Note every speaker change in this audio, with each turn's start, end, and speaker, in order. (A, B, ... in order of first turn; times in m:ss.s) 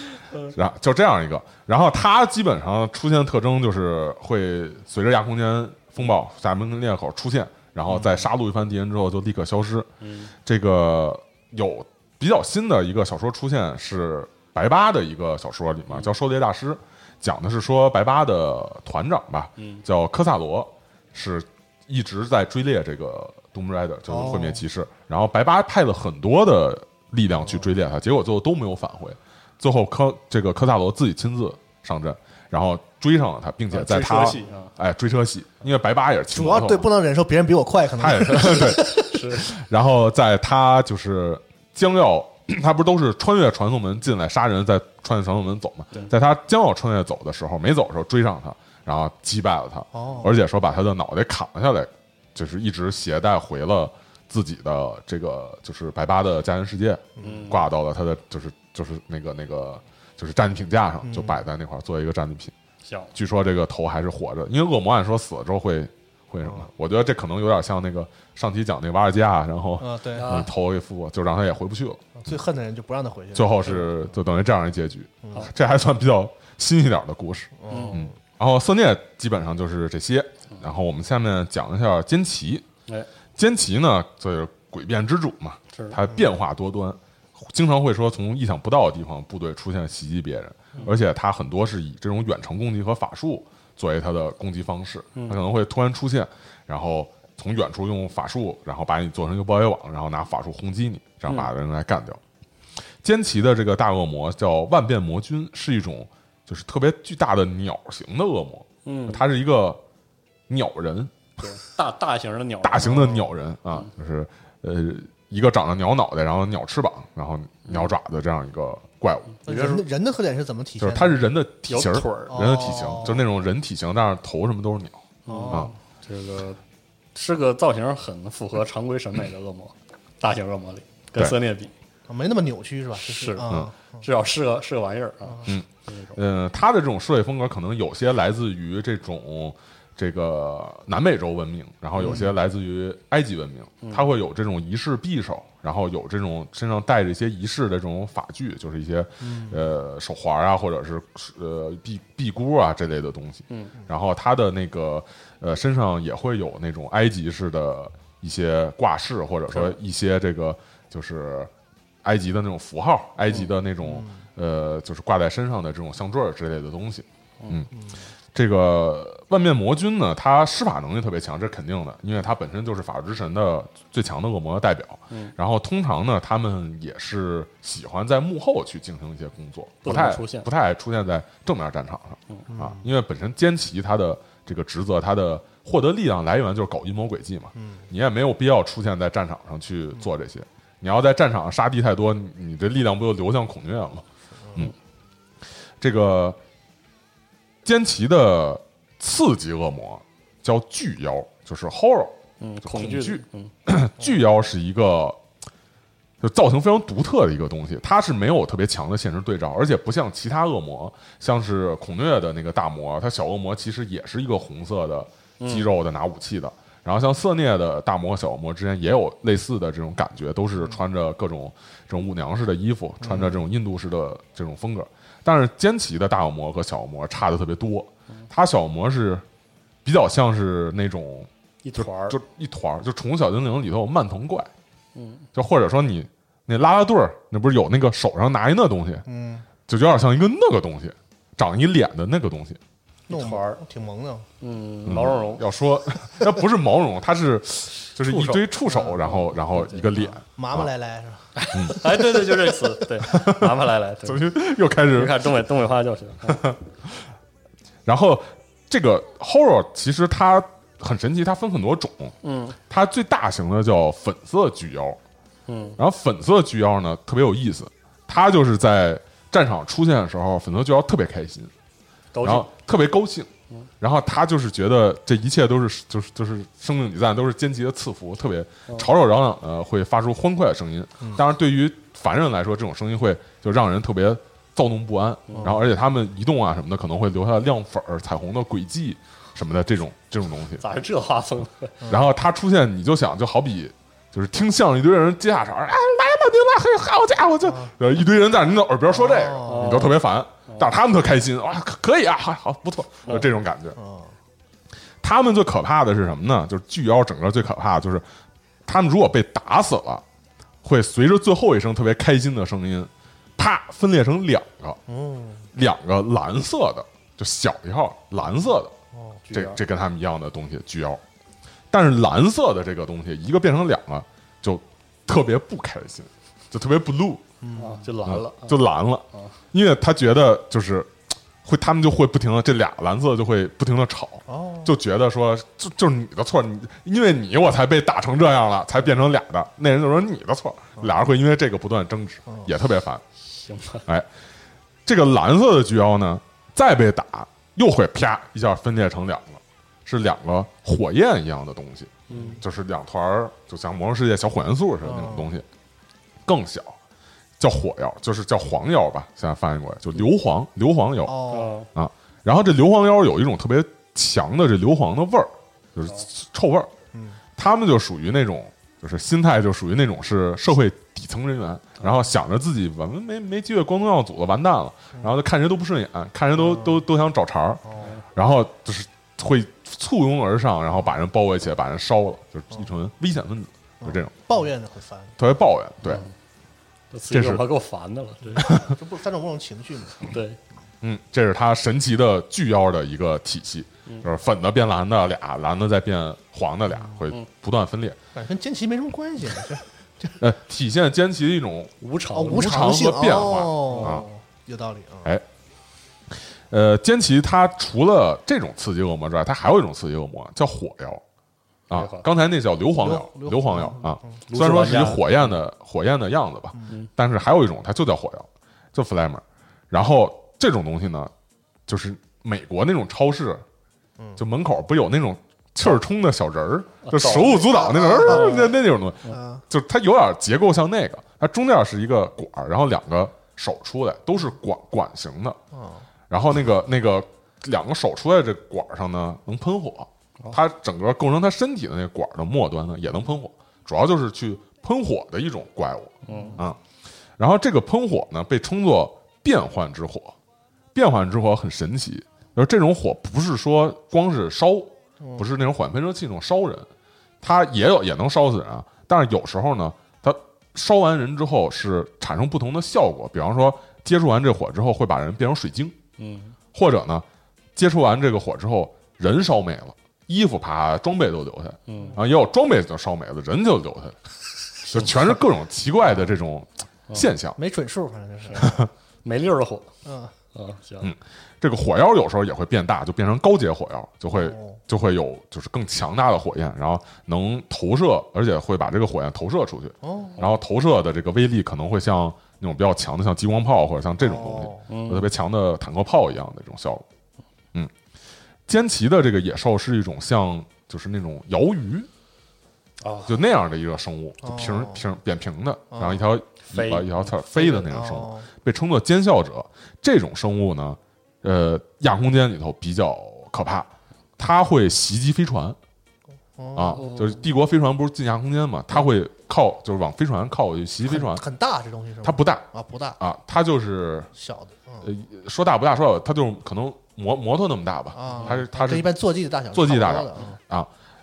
0:00.5-0:09.9 A
0:10.0-0:10.3 B
0:10.4-0:36.9 A
0:19.6-0:19.8 B
0:24.1-0:24.6 C
0:33.7-0:34.7 B
0:36.3-0:39.1 C
0:38.0-1:02.5 A
0:38.7-0:39.5 B
0:49.9-0:50.3 C
0:57.2-0:57.4 C
0:57.2-0:57.6 B
1:01.0-1:01.4 C
1:02.8-1:03.1 B
1:03.1-1:12.2 A
1:09.8-1:10.4 C
1:10.1-1:10.5 B
1:12.2-1:14.1 C
1:13.3-1:22.6 A
1:15.2-1:15.5 C
1:17.6-1:18.1 C
1:17.7-1:18.1 B
1:23.4-1:42.2 A
1:25.7-1:26.0 B
1:35.1-1:35.4 B
1:43.0-1:49.8 A
1:48.8-1:49.2 B
1:50.5-1:51.1 A
1:51.4-1:53.9 B
1:52.6-1:59.3 A
1:59.4-1:59.8 B
1:59.4-2:01.2 C
2:00.8-2:05.7 A
2:01.7-2:02.7 B
2:02.3-2:03.2 C
2:05.2-2:06.6 B
2:05.3-2:05.7 C
2:07.1-2:11.7 B
2:12.1-2:14.0 C
2:13.0-2:16.2 B
2:15.5-2:41.5 A
2:22.0-2:22.2 B
2:22.0-2:22.3 C
2:29.2-2:29.6 C
2:33.5-2:33.7 B
2:42.0-2:47.7 A
2:43.8-2:44.2 C
2:47.4-2:47.6 B
2:47.7-2:48.0 C
2:48.3-3:14.7 A
2:59.8-3:00.5 B
3:02.5-3:02.8 C
3:07.6-3:07.9 C
3:15.8-3:16.4 A
3:17.6-3:25.2 A
3:22.4-3:23.5 B
3:26.2-3:49.2 A
3:35.4-3:35.7 B
3:43.0-3:43.4 C
3:49.8-3:54.5 A
3:51.6-3:52.2 B
3:54.9-3:55.3 B
3:55.3-3:59.0 A
3:59.0-3:59.5 C
3:59.6-4:02.6 A
4:03.1-4:03.6 B
4:03.1-4:04.3 C
4:04.4-4:05.4 B
4:04.8-4:10.7 A
4:08.1-4:08.4 B
4:08.7-4:09.0 C
4:09.0-4:10.1 B
4:10.3-4:12.1 C
4:11.4-4:14.3 B
4:11.5-4:12.0 A
4:13.0-4:15.3 A
4:14.9-4:16.5 B
4:16.3-4:16.6 A
4:17.8-4:22.1 A
4:22.2-4:22.6 B
4:22.7-4:25.0 A
4:25.5-4:25.8 B
4:25.8-4:31.5 A
4:32.1-4:32.5 B
4:32.2-4:50.6 A
4:45.3-4:45.6 B
4:45.4-4:45.6 C
4:50.6-4:51.8 B
4:51.9-5:03.8 A
4:57.4-4:57.7 C
4:58.9-4:59.9 C
4:59.4-5:00.7 B
5:03.7-5:04.1 C
5:05.0-5:08.0 A
5:08.6-5:10.0 A
5:10.6-5:14.8 A
5:14.9-5:15.5 C
5:15.5-5:18.7 A
5:18.9-5:19.2 C
5:19.3-5:19.6 B
5:19.3-5:21.0 A
5:21.7-5:27.2 A
5:27.4-5:27.9 C
5:27.6-5:28.6 B
5:28.0-5:30.9 A
5:31.4-5:43.0 A
5:34.3-5:34.8 C
5:42.2-5:42.5 C
5:43.3-5:43.8 B
5:44.8-5:55.4 A
5:52.1-5:52.4 B
5:52.1-5:52.4 C
5:54.8-5:55.3 C
5:56.2-5:56.8 A
5:57.4-6:01.2 A
6:01.0-6:01.6 C
6:01.3-6:01.7 B
6:01.7-6:06.7 A
6:06.9-6:07.2 C
6:07.4-6:24.2 A
6:16.4-6:16.8 C
6:23.8-6:25.2 C
6:25.2-6:26.0 A
6:25.8-6:26.1 B
6:26.9-6:28.6 B
6:27.1-6:27.4 A
6:28.4-6:28.6 A
6:28.5-6:30.1 C
6:30.0-6:30.4 B
6:30.8-6:38.0 A
6:38.1-6:40.1 C
6:40.2-6:41.7 A
6:41.8-6:42.8 B
6:42.1-6:45.1 C
6:42.3-6:44.0 A
6:43.6-6:44.0 B
6:46.5-6:51.0 A
6:51.7-7:01.1 A
6:51.7-6:52.1 B
6:52.8-6:54.2 C
6:54.3-6:55.1 B
7:01.7-7:03.4 A
7:04.2-7:15.4 A
7:06.8-7:09.2 B
7:07.1-7:08.5 C
7:09.1-7:09.4 C
7:15.5-7:15.8 C
7:16.1-7:26.6 A
7:26.0-7:26.4 B
7:26.1-7:26.4 C
7:27.2-7:30.2 A
7:30.7-7:36.7 A
7:37.2-7:45.8 A
7:46.0-7:46.4 B
7:46.5-7:54.0 A
7:51.7-7:52.0 B
7:54.7-7:57.4 A
7:57.4-7:58.6 C
7:58.3-7:59.7 B
7:58.4-7:58.7 A
7:59.8-8:00.1 C
8:00.3-8:00.9 B
8:00.8-8:16.8 A
8:04.1-8:04.6 C
8:09.8-8:10.2 C
8:14.0-8:14.6 C
8:14.7-8:15.1 B
8:18.5-8:21.9 A
8:22.8-8:23.2 B
8:23.0-8:35.6 A
8:24.2-8:24.8 C
8:25.7-8:26.0 C
8:26.5-8:27.1 B
8:27.3-8:28.3 C
8:36.4-8:36.8 C
8:36.5-8:41.2 A
8:36.7-8:37.2 B
8:40.8-8:43.0 C
8:42.0-8:42.4 A
8:43.0-8:44.1 A
8:44.1-8:44.9 C
8:44.8-8:49.0 A
8:47.9-8:50.4 C
8:48.1-8:48.4 B
8:49.5-8:50.7 A